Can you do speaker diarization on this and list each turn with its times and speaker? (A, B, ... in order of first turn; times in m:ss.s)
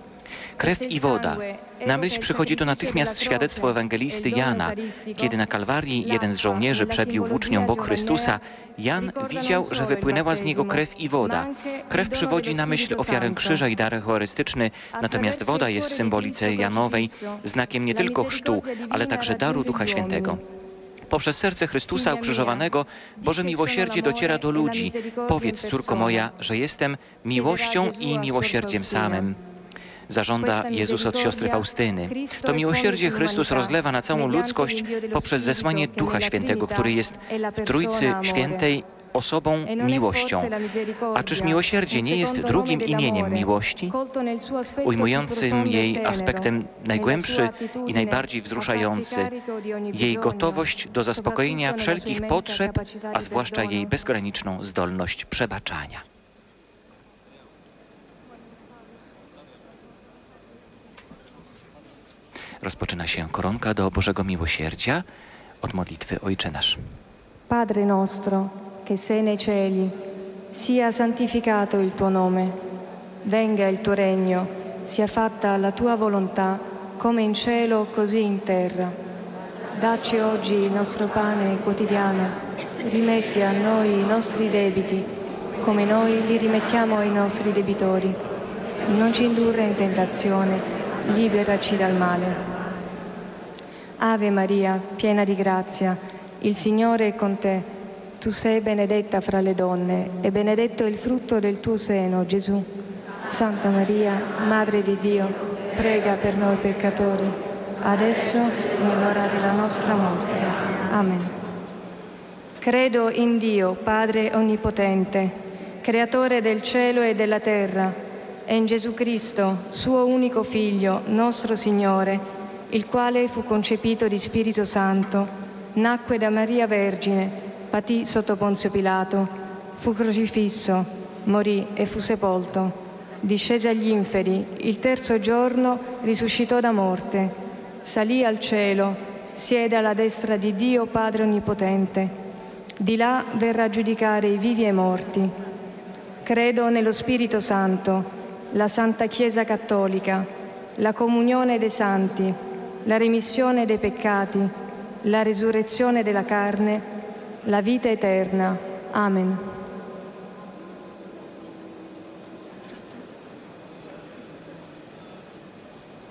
0:00.6-0:20.4 A
0:00.6-0:05.4 B
0:06.0-0:08.4 B
0:09.0-0:13.6 B
0:14.9-0:20.4 B
0:21.1-0:29.4 A
0:21.9-0:22.7 B
0:23.2-0:26.3 B
0:27.3-0:29.3 B
0:30.1-0:40.5 A
0:30.4-0:38.7 B
0:39.6-0:53.9 B
0:41.1-0:43.9 A
0:44.8-0:49.3 A
0:49.9-0:56.0 A
1:02.6-1:05.0 A
1:05.6-1:06.8 A
1:07.5-1:10.0 B
1:10.5-1:12.6 B
1:13.2-1:19.0 B
1:19.8-1:25.1 B
1:25.6-1:28.2 B
1:28.9-1:32.4 B
1:34.0-1:42.7 B
1:43.3-1:51.4 B
1:52.6-2:22.2 B
2:22.8-2:25.3 B
2:26.2-2:36.9 B
2:37.4-2:39.4 B